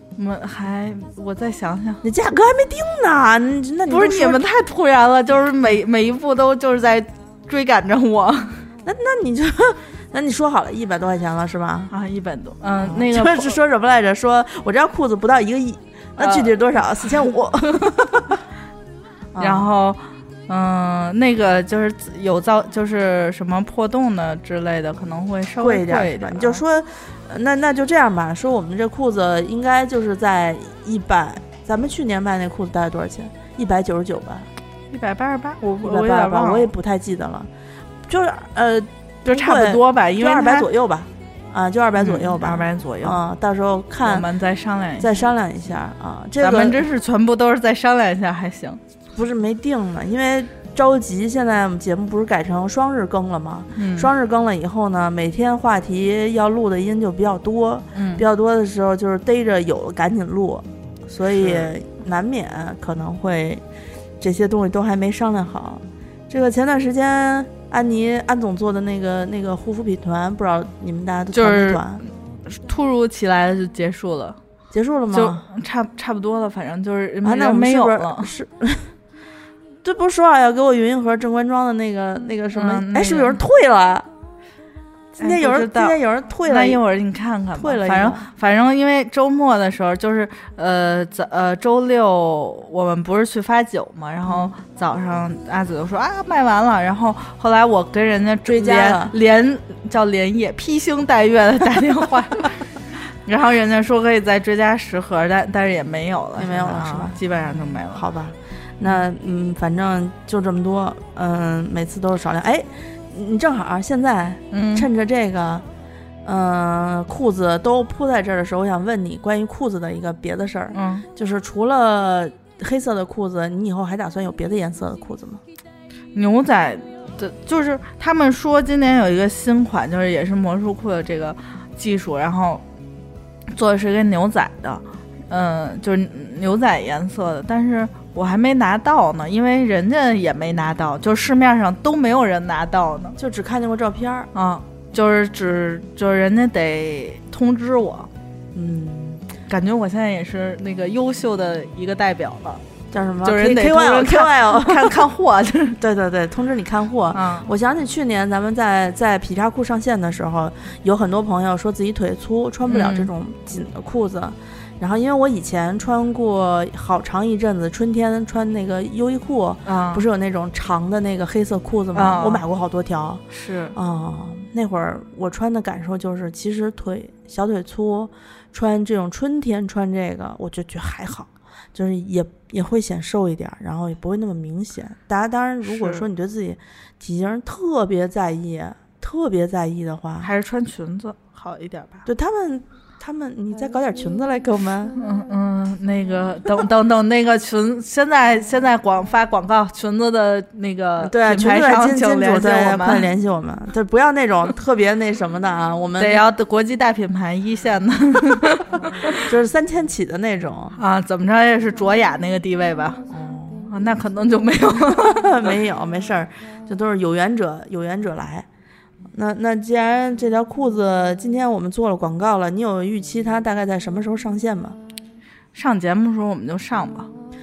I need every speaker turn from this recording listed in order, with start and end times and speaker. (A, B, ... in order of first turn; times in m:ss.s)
0:00.2-0:02.0 A
0:02.0-0:04.4 B
0:03.9-0:08.6 A
0:08.8-0:11.9 B
0:11.9-0:13.6 A
0:12.8-0:18.3 B
0:16.2-0:16.5 A
0:19.3-0:19.7 B
0:19.4-0:26.6 A
0:25.6-0:34.5 B
0:34.9-0:36.7 A
0:35.8-0:37.5 B
0:38.1-0:44.3 B
0:39.2-0:40.7 A
0:42.0-0:43.2 A
0:44.0-0:45.2 A
0:45.0-0:46.8 B
0:46.4-0:48.8 A
0:49.1-1:03.6 B
0:53.8-0:54.1 A
0:57.9-0:58.2 A
1:01.3-1:01.7 A
1:04.2-1:12.0 B
1:11.3-1:14.4 A
1:14.7-1:15.4 B
1:15.1-1:18.3 A
1:17.2-1:18.9 B
1:19.8-1:24.1 B
1:22.5-1:23.4 A
1:25.2-1:26.8 B
1:25.2-1:48.0 A
1:27.6-1:28.3 B
1:34.2-1:34.5 B
1:38.4-1:39.1 B
1:46.4-1:47.2 B
1:47.9-1:55.6 B
1:54.5-1:54.9 A
1:56.2-2:05.4 B
2:00.7-2:01.0 A
2:06.1-2:12.6 A
2:13.5-2:23.1 A
2:23.2-2:24.3 B
2:24.3-2:28.1 A
2:28.5-2:29.2 B
2:29.5-2:32.6 A
2:32.9-2:35.0 B
2:33.2-2:35.8 A
2:35.8-2:53.2 B
2:37.1-2:37.5 A
2:42.7-2:43.1 A
2:49.6-2:50.0 A
2:51.9-2:52.4 A
2:53.3-2:53.8 A
2:53.7-3:10.3 B
3:05.7-3:06.0 A
3:10.2-3:12.0 A
3:12.0-3:15.0 B
3:15.0-3:23.0 A
3:21.0-3:26.2 B
3:26.0-3:29.2 A
3:29.1-3:30.8 B
3:30.8-3:33.0 A
3:33.1-3:33.7 B
3:33.7-3:35.5 A
3:35.0-3:38.4 B
3:39.1-3:44.8 B
3:45.5-3:47.1 A